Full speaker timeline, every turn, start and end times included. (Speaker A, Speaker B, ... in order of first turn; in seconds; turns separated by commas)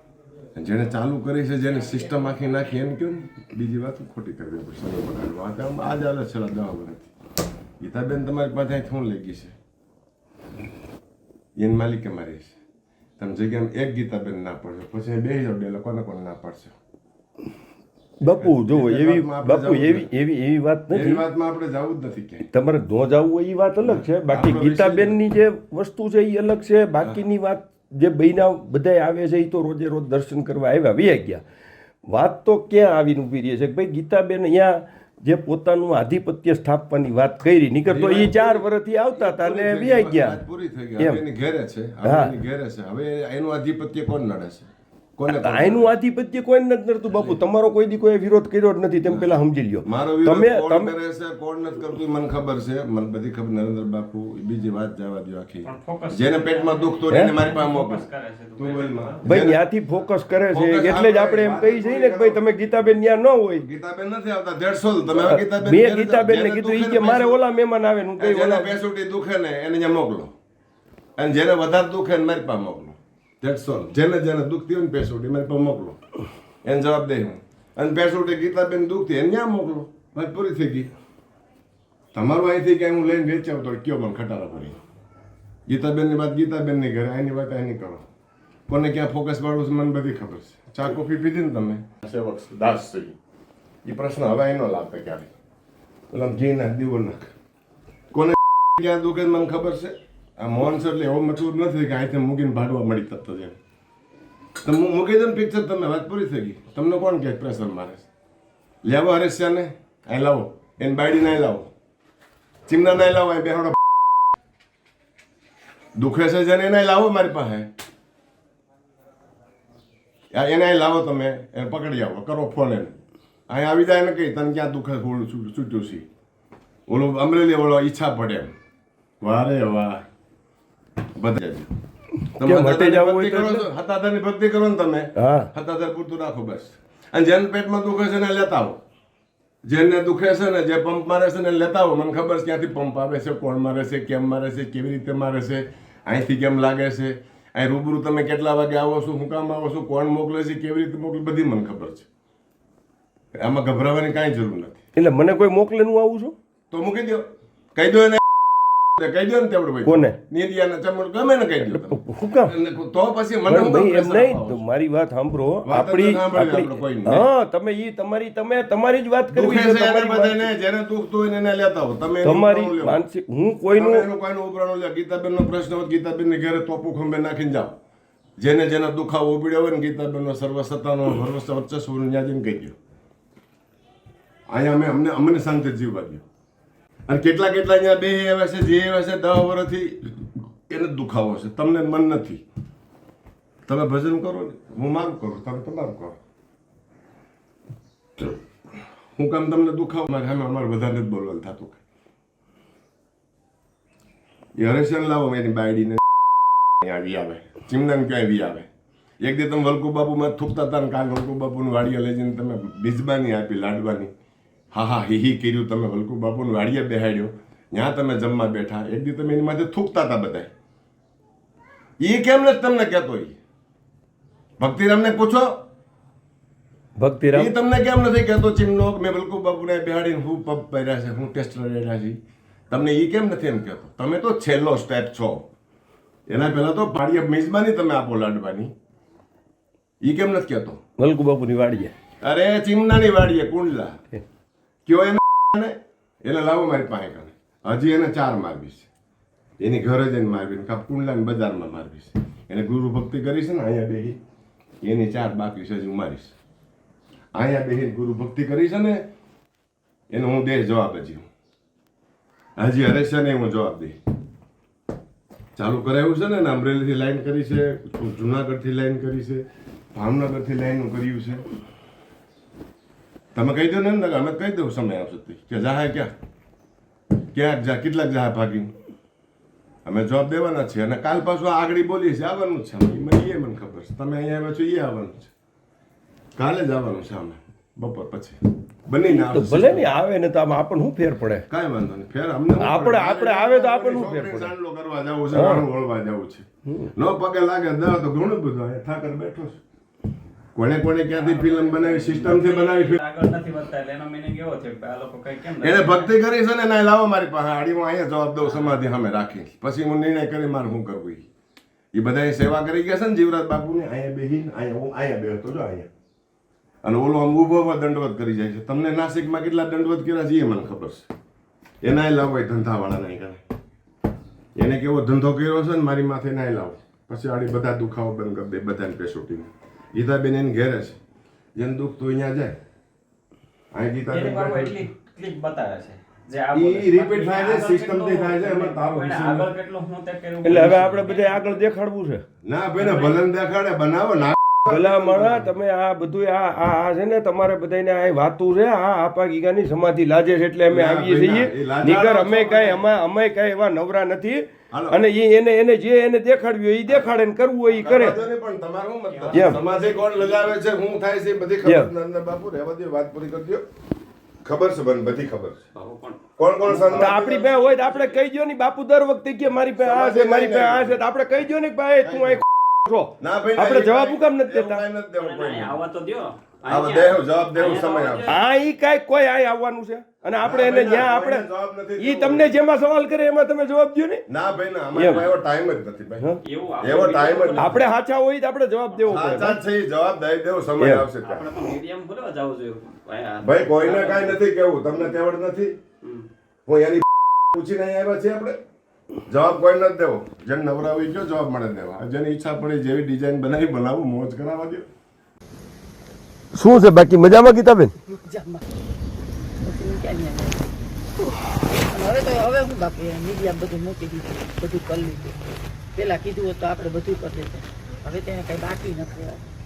Speaker A: 0.6-7.1, Speaker A: 7.8-9.6, Speaker A: 11.6-12.6, Speaker A: 13.2-16.8, Speaker B: 18.2-21.2, Speaker A: 18.4-20.1, Speaker A: 20.9-22.5, Speaker B: 22.5-31.4, Speaker A: 23.8-25.2, Speaker B: 32.1-40.4, Speaker A: 37.9-45.9, Speaker B: 41.0-41.2, Speaker B: 42.0-42.3, Speaker B: 45.3-50.9, Speaker A: 47.1-47.4, Speaker A: 49.1-59.6, Speaker C: 55.6-59.2, Speaker B: 57.1-57.4, Speaker B: 59.2-63.7, Speaker A: 60.5-62.4, Speaker A: 63.6-67.4, Speaker B: 65.2-68.8, Speaker A: 68.2-70.3, Speaker A: 71.2-76.0, Speaker A: 76.6-80.9, Speaker A: 82.1-84.8, Speaker A: 85.7-88.0, Speaker A: 88.7-93.2, Speaker A: 93.8-95.3, Speaker A: 96.1-97.3, Speaker A: 98.1-103.6, Speaker A: 104.6-108.1, Speaker A: 108.8-111.7, Speaker A: 112.7-113.8, Speaker A: 116.0-117.7, Speaker A: 120.3-122.9, Speaker A: 123.5-126.1, Speaker A: 126.9-128.5, Speaker A: 129.2-130.1, Speaker A: 131.2-131.7, Speaker B: 132.3-133.7, Speaker A: 132.4-138.8, Speaker B: 135.2-135.5, Speaker A: 139.7-152.1, Speaker A: 153.3-154.8, Speaker B: 155.0-156.4, Speaker A: 156.7-158.3, Speaker A: 159.0-164.6, Speaker B: 159.8-160.2, Speaker B: 161.6-162.5, Speaker B: 163.5-170.5, Speaker A: 165.7-167.3, Speaker A: 169.3-173.0, Speaker B: 172.2-174.1, Speaker A: 173.8-177.8, Speaker A: 178.4-182.8, Speaker A: 184.5-186.2, Speaker A: 187.1-190.2, Speaker A: 190.7-192.4, Speaker A: 193.7-196.2, Speaker A: 199.2-201.8, Speaker A: 204.6-206.0, Speaker A: 206.8-208.7, Speaker A: 209.2-214.1, Speaker A: 214.7-220.5, Speaker A: 222.0-223.4, Speaker A: 224.6-225.7, Speaker B: 227.0-227.5, Speaker A: 227.3-232.2, Speaker A: 232.7-235.5, Speaker A: 236.3-238.7, Speaker A: 240.0-240.8, Speaker B: 241.0-241.9, Speaker A: 242.2-244.0, Speaker A: 244.8-248.9, Speaker A: 249.6-254.2, Speaker A: 254.8-256.4, Speaker A: 257.3-259.1, Speaker A: 260.1-261.3, Speaker A: 262.6-264.0, Speaker A: 265.6-271.4, Speaker A: 273.4-276.1, Speaker A: 277.3-278.7, Speaker A: 279.9-285.3, Speaker A: 286.4-289.9, Speaker B: 289.1-291.4, Speaker A: 291.5-299.6, Speaker B: 292.6-294.6, Speaker B: 295.3-295.7, Speaker A: 300.5-303.0, Speaker C: 301.1-306.1, Speaker A: 305.6-311.3, Speaker A: 311.9-315.9, Speaker A: 316.8-321.1, Speaker A: 321.8-323.4, Speaker A: 324.6-331.0, Speaker A: 331.6-332.6, Speaker A: 333.7-334.9, Speaker C: 334.1-341.6, Speaker A: 336.5-339.5, Speaker B: 340.4-342.2, Speaker A: 340.5-340.8, Speaker A: 342.4-345.5, Speaker C: 342.8-343.2, Speaker B: 344.7-358.2, Speaker A: 350.7-352.8, Speaker A: 354.7-355.0, Speaker A: 357.7-363.7, Speaker C: 359.1-360.6, Speaker B: 359.3-359.6, Speaker B: 361.6-361.9, Speaker A: 364.4-365.6, Speaker C: 365.8-368.2, Speaker A: 366.4-367.5, Speaker B: 366.9-374.8, Speaker A: 369.8-371.0, Speaker A: 372.1-372.4, Speaker A: 373.2-375.8, Speaker C: 375.2-378.3, Speaker A: 376.7-378.4, Speaker B: 378.3-381.5, Speaker A: 380.4-382.5, Speaker B: 382.0-384.2, Speaker A: 384.3-386.3, Speaker B: 384.9-385.3, Speaker C: 386.4-387.8, Speaker A: 386.8-387.8, Speaker B: 387.6-389.6, Speaker A: 389.1-391.5, Speaker B: 390.8-391.1, Speaker C: 391.2-394.4, Speaker A: 393.4-395.8, Speaker A: 396.7-398.6, Speaker A: 399.3-404.9, Speaker B: 406.6-407.9, Speaker D: 408.1-408.6, Speaker D: 409.6-410.7, Speaker D: 411.8-415.4, Speaker D: 415.9-419.4